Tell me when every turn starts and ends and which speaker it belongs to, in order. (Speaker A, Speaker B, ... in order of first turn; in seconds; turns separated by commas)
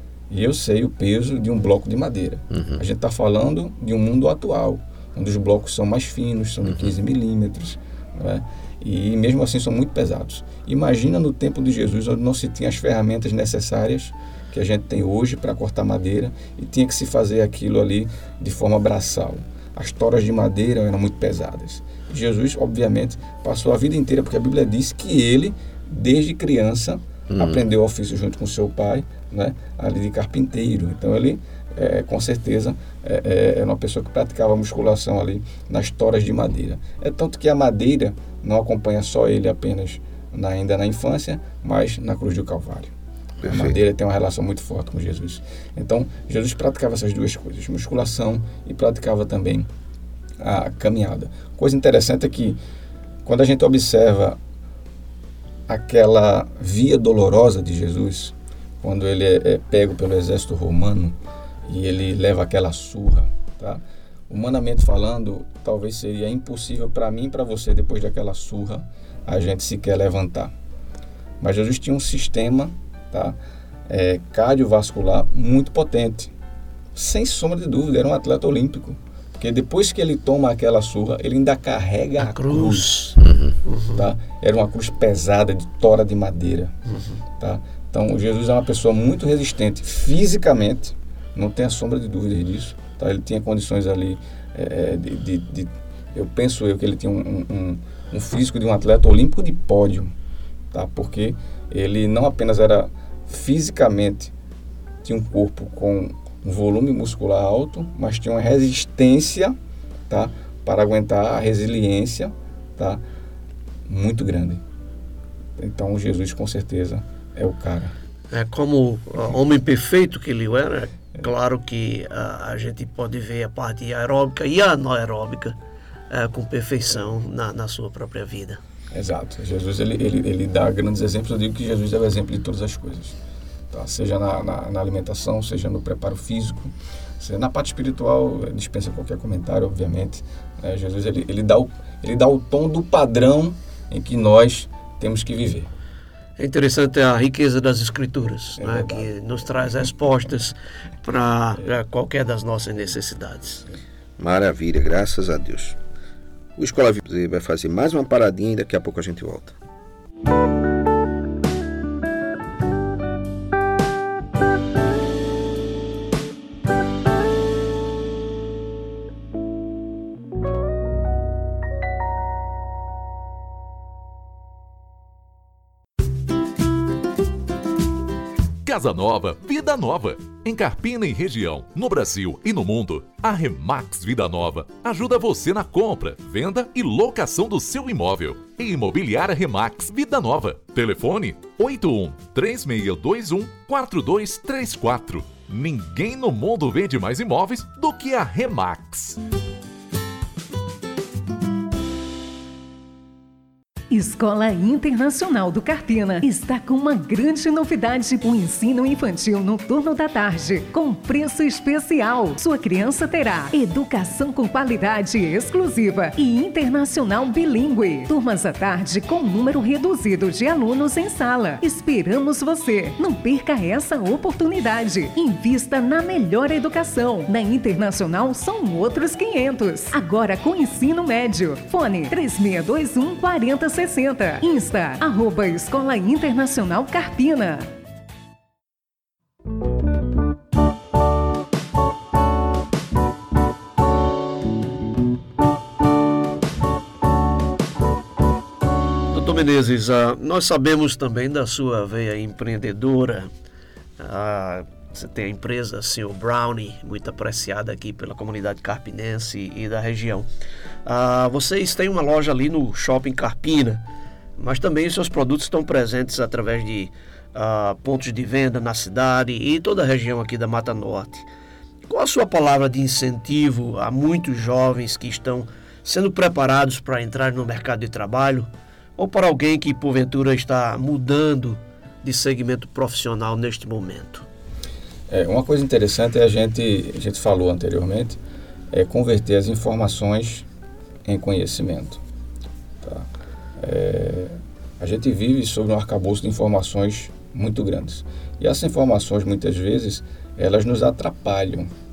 Speaker A: 0.3-49.7, Speaker B: 2.5-2.8, Speaker B: 6.7-6.9, Speaker B: 27.3-27.6, Speaker B: 43.4-43.8, Speaker A: 50.4-52.6, Speaker A: 53.2-54.4, Speaker A: 55.7-70.5, Speaker A: 71.4-73.4, Speaker A: 73.9-76.3, Speaker A: 76.9-83.1, Speaker C: 82.2-84.0, Speaker B: 83.2-83.6, Speaker A: 83.9-86.7, Speaker C: 86.9-87.2, Speaker A: 87.4-100.1, Speaker A: 100.7-104.3, Speaker A: 105.0-109.5, Speaker A: 110.1-113.0, Speaker A: 113.8-114.6, Speaker A: 115.6-118.0, Speaker C: 118.3-125.6, Speaker C: 126.1-128.6, Speaker A: 128.9-133.2, Speaker A: 133.7-145.7, Speaker C: 146.4-153.7, Speaker A: 148.6-149.2, Speaker B: 154.2-155.8, Speaker B: 156.6-159.6, Speaker D: 178.6-199.2, Speaker E: 203.9-237.7, Speaker C: 249.1-253.3, Speaker C: 254.0-260.3, Speaker C: 260.8-263.8, Speaker C: 264.4-271.3, Speaker C: 271.9-284.3, Speaker A: 285.1-288.2, Speaker A: 288.7-290.5, Speaker A: 291.0-292.0, Speaker A: 292.8-301.7